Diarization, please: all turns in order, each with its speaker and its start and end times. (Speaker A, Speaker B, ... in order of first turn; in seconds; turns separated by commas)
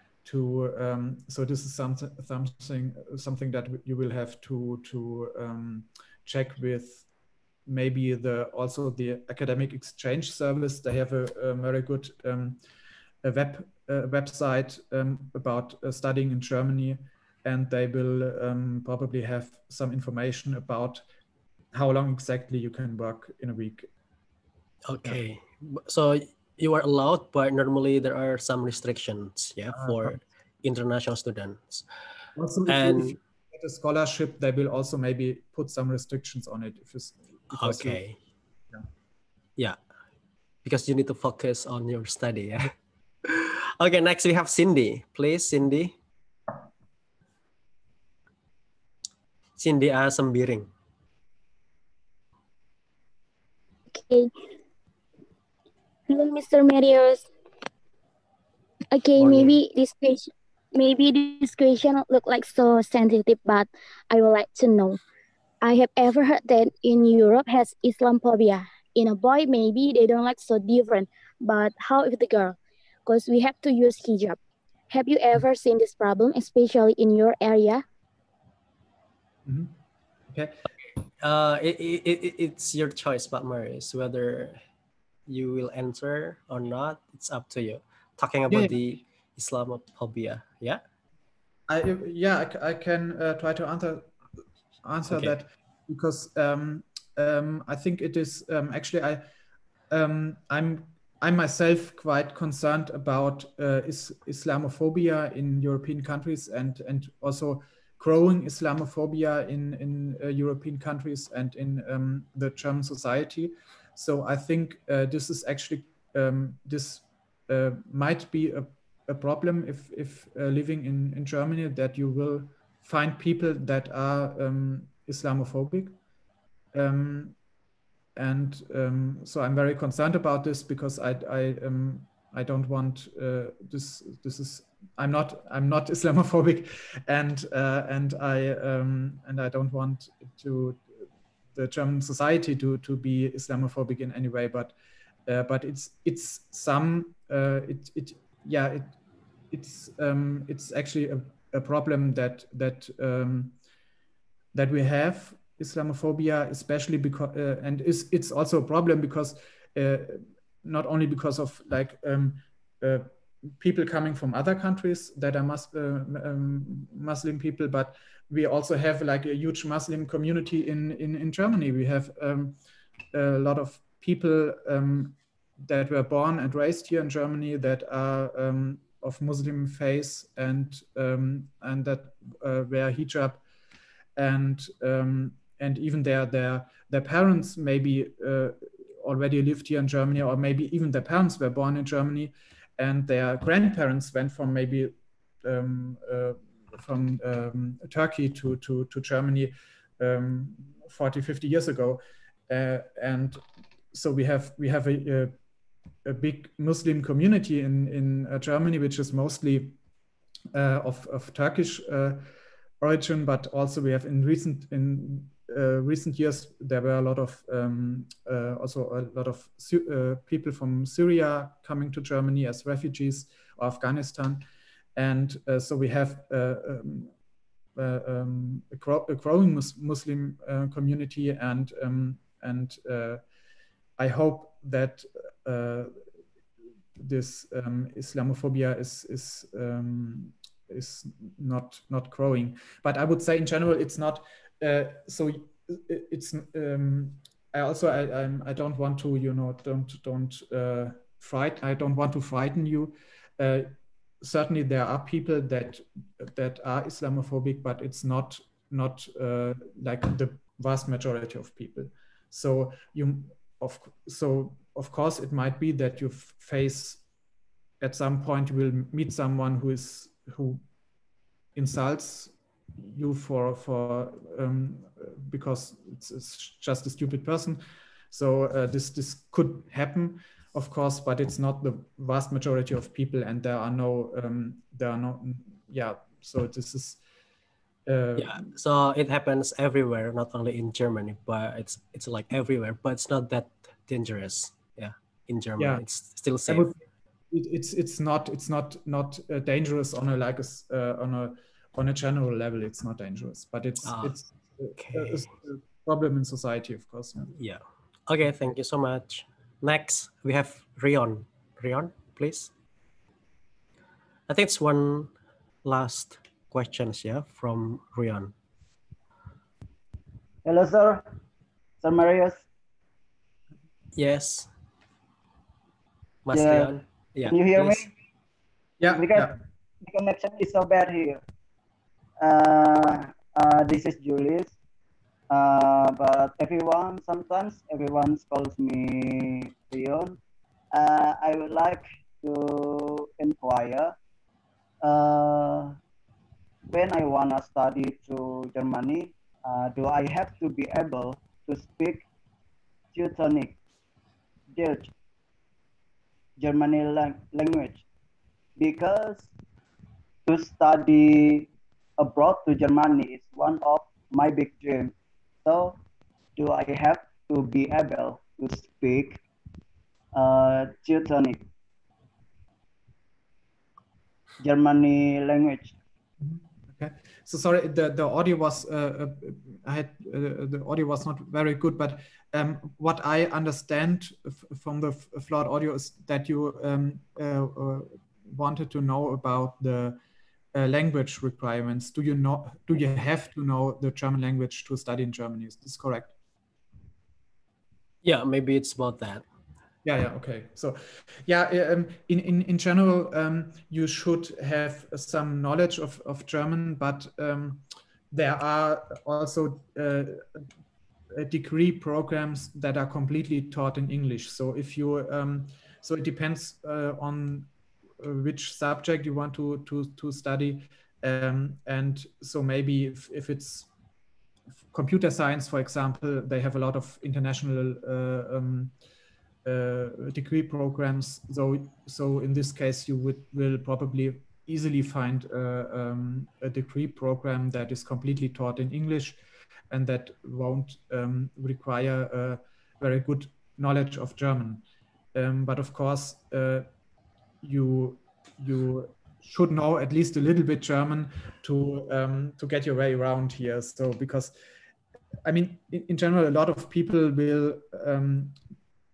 Speaker A: 0.2-7.1, Speaker A: 7.7-12.6, Speaker A: 13.2-21.0, Speaker A: 21.7-23.9, Speaker B: 24.9-31.9, Speaker A: 29.7-30.2, Speaker A: 32.4-38.0, Speaker B: 32.7-33.2, Speaker B: 37.5-38.2, Speaker B: 40.6-42.7, Speaker B: 43.2-45.9, Speaker B: 49.6-50.7, Speaker C: 53.9-54.3, Speaker C: 56.1-57.3, Speaker C: 58.9-65.0, Speaker B: 59.2-59.6, Speaker C: 65.6-74.4, Speaker C: 74.9-77.8, Speaker A: 79.5-79.7, Speaker A: 80.3-80.5, Speaker B: 81.2-84.6, Speaker B: 85.3-90.8, Speaker A: 88.5-88.8, Speaker A: 91.7-94.1, Speaker A: 94.8-99.2, Speaker B: 95.1-95.4, Speaker A: 99.9-126.0, Speaker A: 126.7-127.3, Speaker A: 128.2-140.8, Speaker A: 141.5-144.7, Speaker A: 145.2-148.9, Speaker A: 149.5-153.6, Speaker A: 154.5-172.6, Speaker A: 173.1-183.4, Speaker A: 184.2-205.3, Speaker A: 206.0-209.8, Speaker A: 210.5-212.2, Speaker A: 212.8-224.4, Speaker A: 224.9-227.1, Speaker A: 227.8-233.2, Speaker A: 234.0-235.9, Speaker A: 237.0-267.0, Speaker A: 267.8-270.6, Speaker A: 271.5-287.0, Speaker A: 287.9-288.5, Speaker B: 288.2-296.7, Speaker A: 295.6-295.8, Speaker A: 296.5-307.3, Speaker B: 303.8-304.2, Speaker B: 304.8-305.3, Speaker B: 307.3-312.5, Speaker B: 314.3-315.1, Speaker B: 315.6-318.3, Speaker D: 320.4-321.1, Speaker D: 321.8-322.4, Speaker B: 323.9-324.5, Speaker B: 326.2-327.9, Speaker D: 326.3-327.9, Speaker A: 328.8-329.3, Speaker D: 328.9-331.2, Speaker D: 332.2-334.6, Speaker D: 335.3-340.2, Speaker D: 340.7-344.0, Speaker D: 344.8-345.8, Speaker D: 346.7-352.0, Speaker D: 352.9-353.6, Speaker D: 354.5-354.9, Speaker D: 356.4-357.8, Speaker D: 358.6-359.3, Speaker D: 360.2-365.8, Speaker D: 366.4-369.2, Speaker D: 370.1-371.5, Speaker D: 374.4-375.7, Speaker A: 376.2-390.0, Speaker A: 390.5-396.1, Speaker B: 398.0-399.2, Speaker A: 399.8-410.4, Speaker A: 411.1-417.5, Speaker A: 418.0-423.7, Speaker A: 424.7-428.7, Speaker A: 429.4-444.6, Speaker A: 445.1-446.7, Speaker A: 447.4-454.3, Speaker A: 455.2-458.4